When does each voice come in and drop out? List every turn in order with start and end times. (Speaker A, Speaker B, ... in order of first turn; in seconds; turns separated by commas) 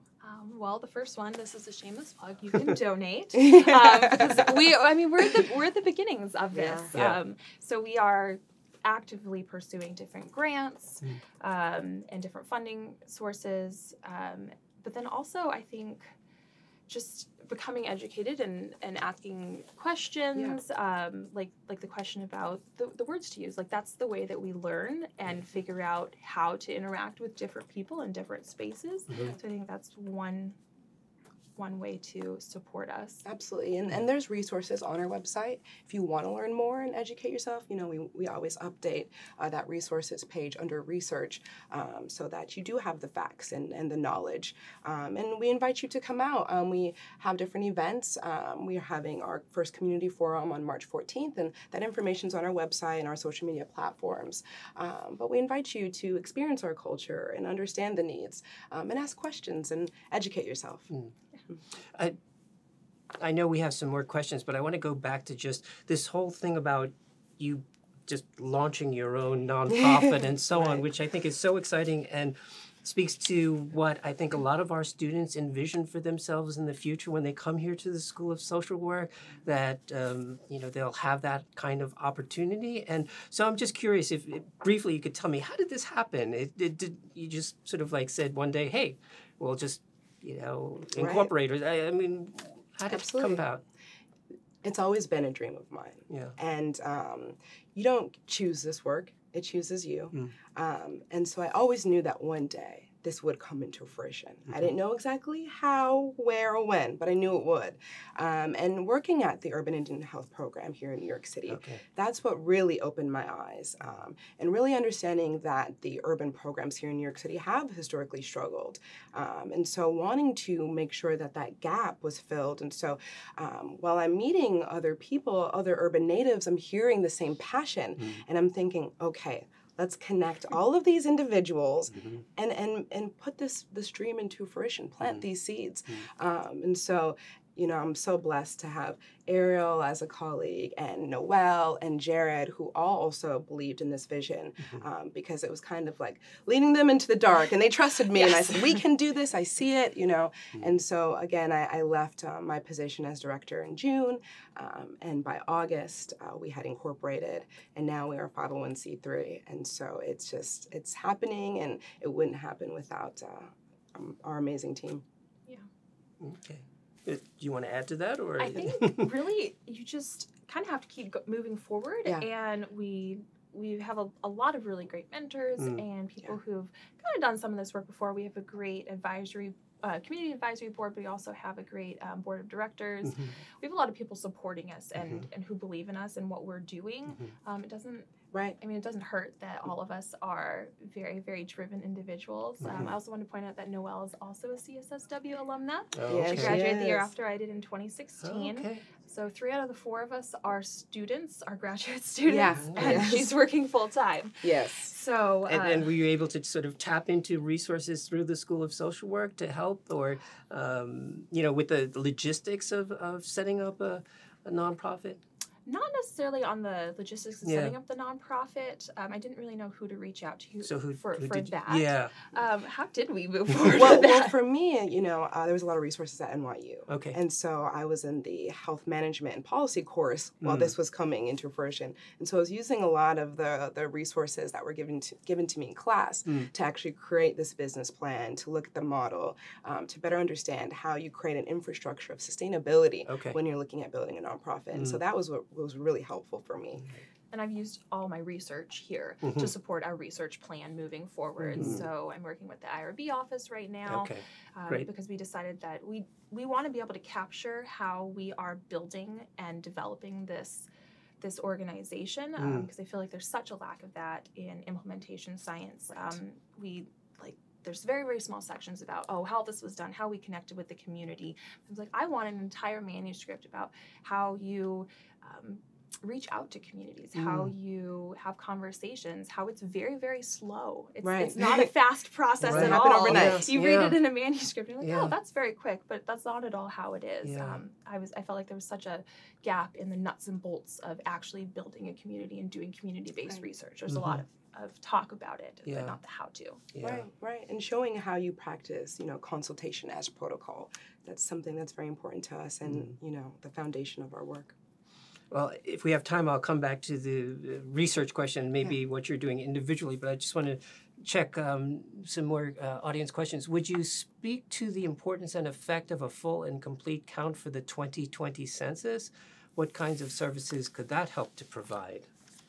Speaker A: 0.2-16.1, Speaker B: 3.4-4.5, Speaker B: 6.5-6.9, Speaker C: 6.9-7.2, Speaker A: 16.9-30.6, Speaker A: 31.6-33.2, Speaker B: 33.2-60.9, Speaker C: 63.2-93.6, Speaker B: 69.8-70.8, Speaker B: 91.0-91.3, Speaker B: 92.9-93.4, Speaker B: 94.6-165.0, Speaker C: 96.1-96.3, Speaker C: 111.5-111.8, Speaker C: 131.9-132.2, Speaker A: 148.1-148.7, Speaker C: 166.2-169.1, Speaker A: 168.4-205.9, Speaker C: 175.6-175.8, Speaker C: 183.0-183.3, Speaker B: 188.3-188.6, Speaker C: 192.6-192.9, Speaker C: 195.9-196.6, Speaker B: 196.1-197.1, Speaker C: 198.2-198.8, Speaker B: 202.3-203.3, Speaker C: 202.6-203.0, Speaker B: 204.4-204.9, Speaker C: 205.5-215.2, Speaker A: 215.7-224.3, Speaker C: 217.4-217.8, Speaker C: 220.6-222.2, Speaker B: 223.7-246.8, Speaker C: 226.9-227.2, Speaker C: 230.4-230.7, Speaker C: 243.1-243.4, Speaker C: 244.7-245.0, Speaker A: 247.3-260.7, Speaker C: 249.2-249.5, Speaker C: 251.4-251.8, Speaker B: 251.5-251.8, Speaker C: 253.9-254.9, Speaker A: 261.2-296.6, Speaker C: 262.4-262.7, Speaker C: 277.2-277.5, Speaker B: 281.0-281.7, Speaker B: 282.4-283.5, Speaker C: 282.4-284.0, Speaker C: 284.8-285.1, Speaker C: 287.2-287.6, Speaker C: 293.9-294.2, Speaker C: 295.7-296.0, Speaker C: 296.7-297.1, Speaker B: 296.8-304.5, Speaker C: 302.7-302.9, Speaker C: 305.3-322.1